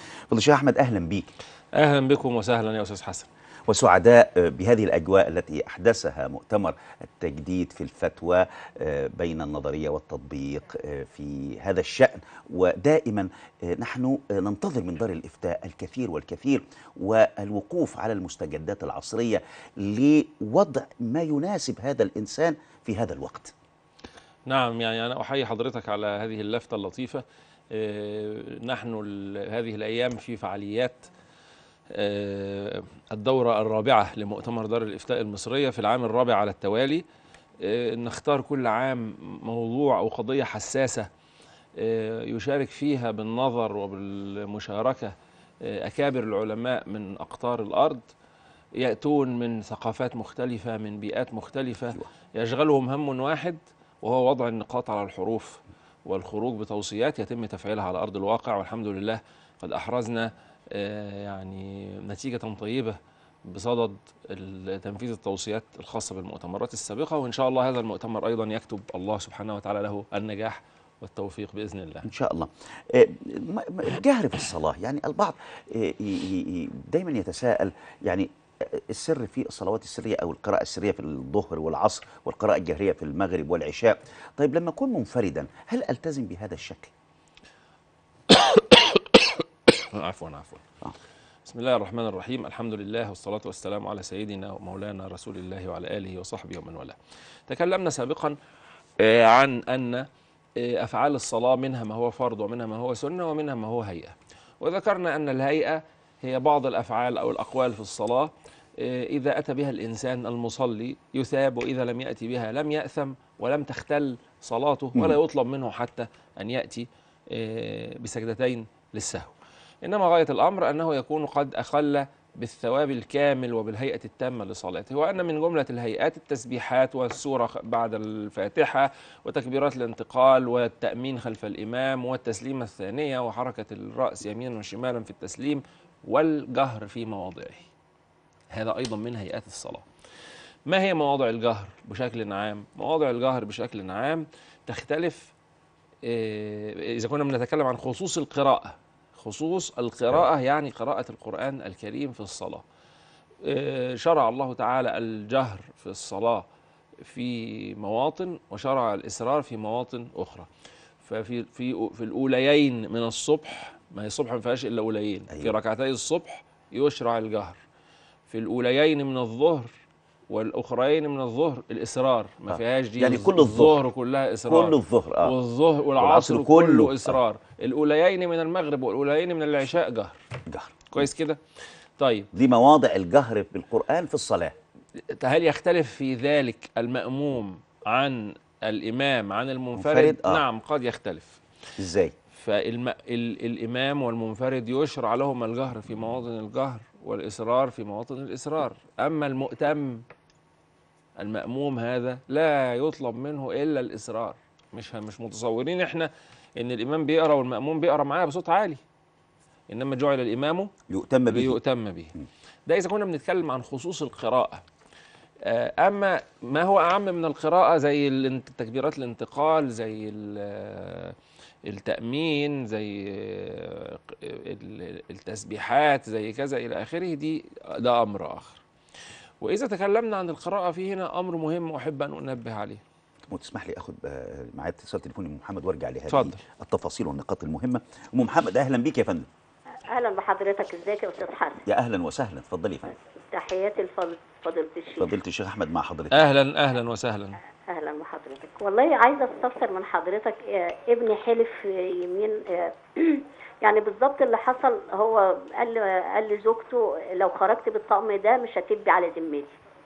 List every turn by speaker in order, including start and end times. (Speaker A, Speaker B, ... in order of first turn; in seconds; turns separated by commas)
Speaker A: 0.3-1.3, Speaker B: 1.8-3.3, Speaker A: 3.7-23.5, Speaker B: 24.5-31.1, Speaker B: 31.9-37.0, Speaker B: 37.6-41.1, Speaker B: 41.8-48.1, Speaker B: 48.8-72.1, Speaker A: 72.0-86.9, Speaker B: 88.3-90.6, Speaker B: 91.5-97.0, Speaker B: 97.5-98.4, Speaker B: 99.0-137.7, Speaker B: 138.5-139.8, Speaker B: 140.7-145.3, Speaker B: 146.0-152.6, Speaker B: 153.4-156.5, Speaker B: 157.0-160.5, Speaker B: 161.0-167.6, Speaker B: 168.3-169.7, Speaker B: 170.3-180.2, Speaker A: 172.5-173.8, Speaker A: 174.5-175.3, Speaker A: 176.0-177.2, Speaker A: 180.5-181.1, Speaker B: 180.9-181.4, Speaker B: 182.0-182.3, Speaker A: 182.3-184.6, Speaker B: 185.0-191.4, Speaker A: 189.8-190.4, Speaker A: 191.8-192.1, Speaker B: 192.3-200.0, Speaker B: 201.2-208.8, Speaker B: 209.7-210.7, Speaker A: 210.9-211.6, Speaker B: 211.3-212.1, Speaker B: 212.7-214.6, Speaker B: 215.4-228.6, Speaker B: 229.4-232.8, Speaker A: 233.3-239.3, Speaker B: 236.1-236.4, Speaker C: 239.9-241.6, Speaker A: 241.7-243.0, Speaker C: 243.2-245.2, Speaker A: 245.0-246.2, Speaker B: 246.1-247.4, Speaker C: 247.7-259.6